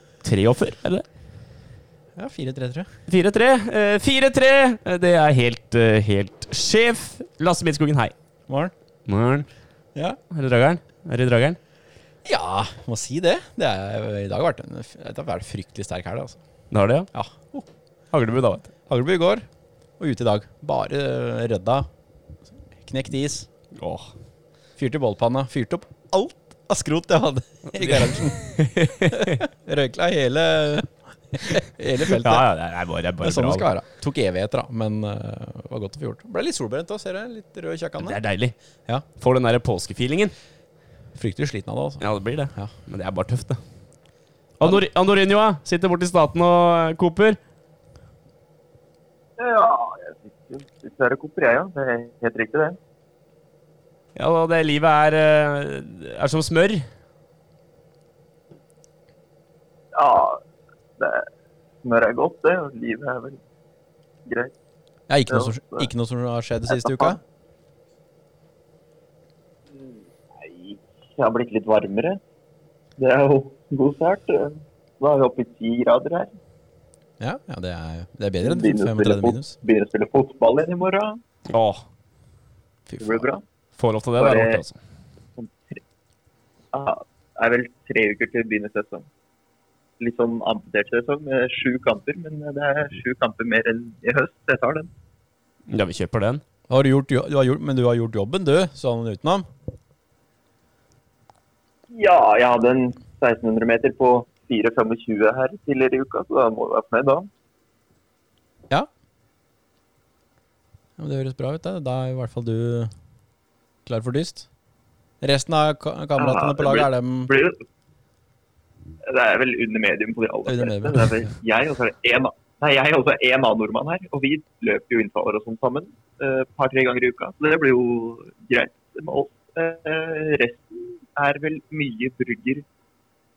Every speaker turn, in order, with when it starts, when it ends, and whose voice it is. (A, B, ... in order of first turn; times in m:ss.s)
0:00.2-0:01.0 A
0:02.2-0:02.9 B
0:03.1-0:08.1 A
0:08.5-0:08.7 B
0:09.1-0:09.5 A
0:10.3-0:11.6 A
0:12.2-0:16.4 B
0:16.7-0:17.1 A
0:17.1-0:17.7 B
0:18.1-0:18.7 A
0:18.9-0:19.5 B
0:20.0-0:21.9 B
0:22.8-0:23.5 B
0:23.8-0:24.1 A
0:24.8-0:28.4 B
0:27.8-0:29.4 A
0:29.1-0:32.5 B
0:32.1-0:33.7 A
0:33.2-0:38.2 B
0:38.0-0:38.6 A
0:39.2-0:40.3 A
0:41.2-0:42.0 B
0:42.0-0:43.6 A
0:44.6-0:47.4 A
0:49.4-0:52.8 C
0:54.2-0:56.9 A
1:00.0-1:00.4 C
1:01.0-1:01.3 C
1:01.8-1:03.4 C
1:04.3-1:04.5 C
1:05.1-1:07.2 B
1:05.3-1:05.9 C
1:06.7-1:07.2 C
1:09.8-1:12.2 C
1:13.0-1:16.3 C
1:17.2-1:19.6 B
1:18.4-1:21.2 C
1:21.5-1:21.8 A
1:22.9-1:23.3 B
1:23.0-1:23.4 C
1:23.8-1:24.8 A
1:24.2-1:24.6 C
1:25.4-1:25.8 C
1:26.7-1:29.1 C
1:30.0-1:34.9 C
1:35.7-1:36.4 A
1:36.7-1:39.5 B
1:41.9-1:47.3 C
1:51.0-1:52.9 B
1:53.9-1:54.5 B
1:55.2-1:57.3 B
1:56.2-1:57.6 C
1:59.0-2:12.6 C
2:00.5-2:01.2 B